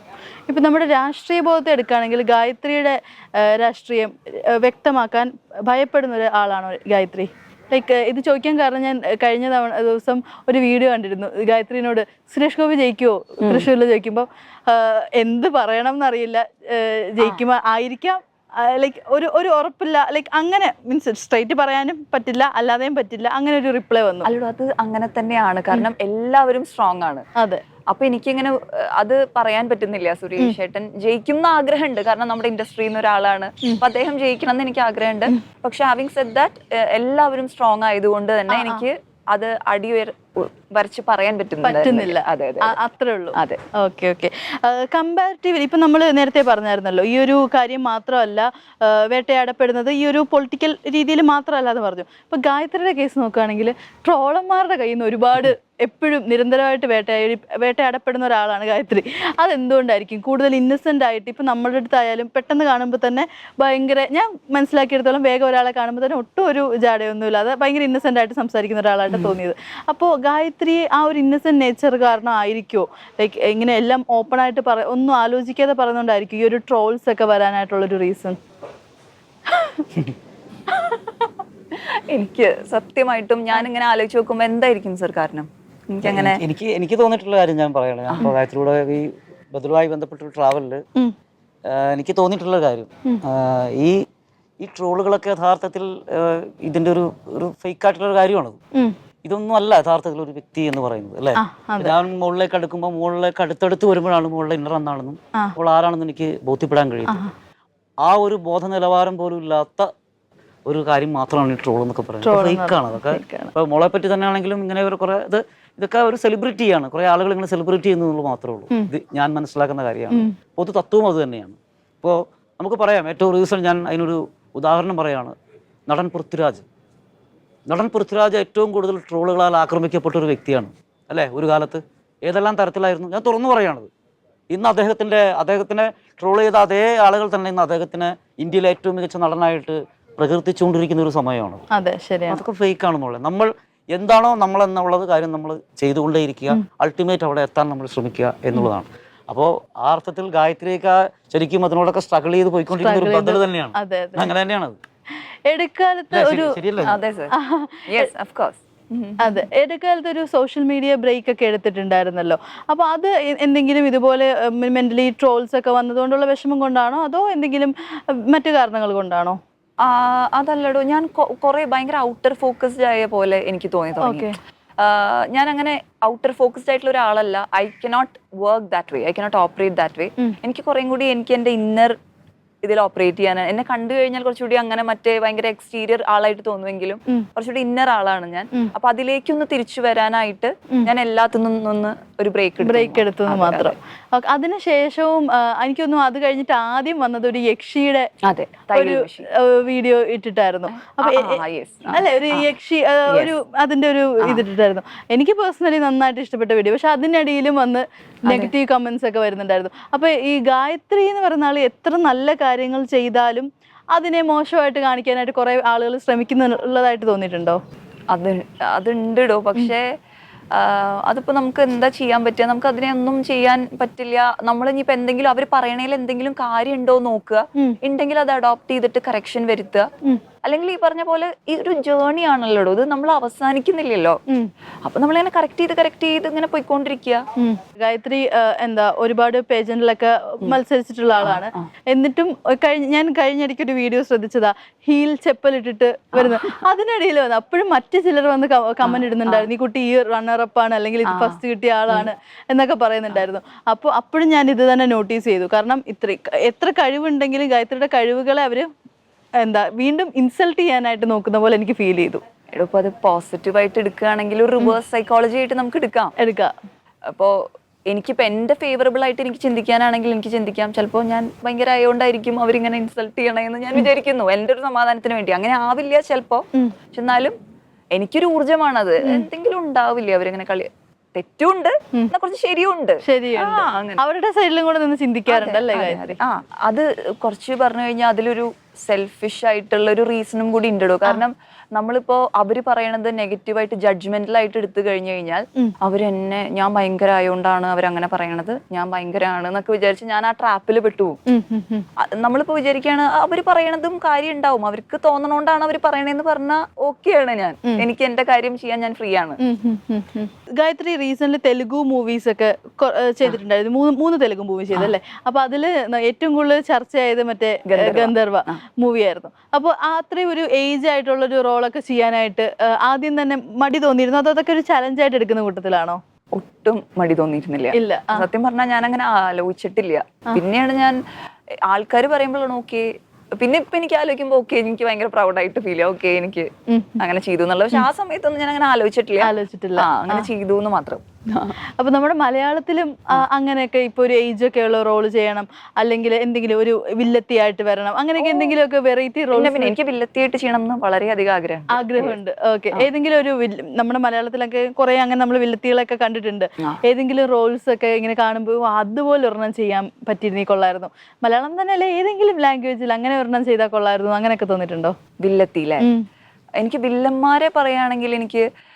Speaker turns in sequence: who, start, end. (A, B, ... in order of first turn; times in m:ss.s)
0:00.5-0:24.3 A
0:13.4-0:13.7 B
0:24.2-0:27.2 B
0:27.4-0:27.6 A
0:27.9-0:42.8 B
0:38.5-0:38.8 A
0:41.6-1:18.4 A
1:09.1-1:09.4 B
1:21.8-1:26.4 B
1:26.0-1:30.8 C
1:28.1-1:28.4 B
1:31.7-1:34.0 C
1:34.6-1:38.6 C
1:39.2-1:47.2 C
1:41.4-1:42.0 A
1:48.0-1:49.9 C
1:50.7-2:05.3 C
1:52.2-1:53.5 A
2:05.9-2:06.6 C
2:07.7-2:13.9 C
2:14.5-2:21.6 C
2:21.7-2:22.4 A
2:22.3-2:34.8 C
2:32.7-2:34.3 A
2:35.5-2:36.6 A
2:36.1-2:37.0 C
2:36.8-2:37.3 B
2:37.4-2:38.1 A
2:37.9-2:39.4 B
2:39.2-2:49.4 A
2:49.8-3:02.0 B
2:54.0-2:54.4 A
3:02.6-3:13.8 B
3:12.6-3:18.1 A
3:18.3-3:19.3 B
3:18.7-3:21.4 A
3:20.7-3:22.5 B
3:21.9-3:37.6 A
3:28.3-3:28.5 B
3:38.1-3:39.9 B
3:40.5-3:49.9 B
3:50.4-3:54.2 B
3:54.8-3:57.2 B
3:57.4-4:18.7 A
4:01.2-4:01.7 B
4:06.2-4:06.6 B
4:08.8-4:09.5 B
4:11.1-4:11.4 B
4:19.4-4:22.2 A
4:22.5-4:26.1 B
4:26.2-4:26.5 A
4:27.9-4:37.4 B
4:38.0-4:44.0 B
4:43.0-4:46.2 A
4:45.3-5:01.2 B
5:01.3-5:01.8 A
5:02.0-5:09.4 B
5:09.4-5:26.0 A
5:17.7-5:18.6 B
5:26.3-5:31.0 B
5:27.7-5:28.3 A
5:31.7-5:32.9 B
5:33.4-5:41.6 B
5:36.7-5:37.0 A
5:39.2-5:40.3 A
5:41.8-5:49.7 A
5:48.2-5:48.5 B
5:49.3-5:52.2 B
5:51.7-6:04.9 A
6:05.2-6:05.9 B
6:06.6-6:08.4 B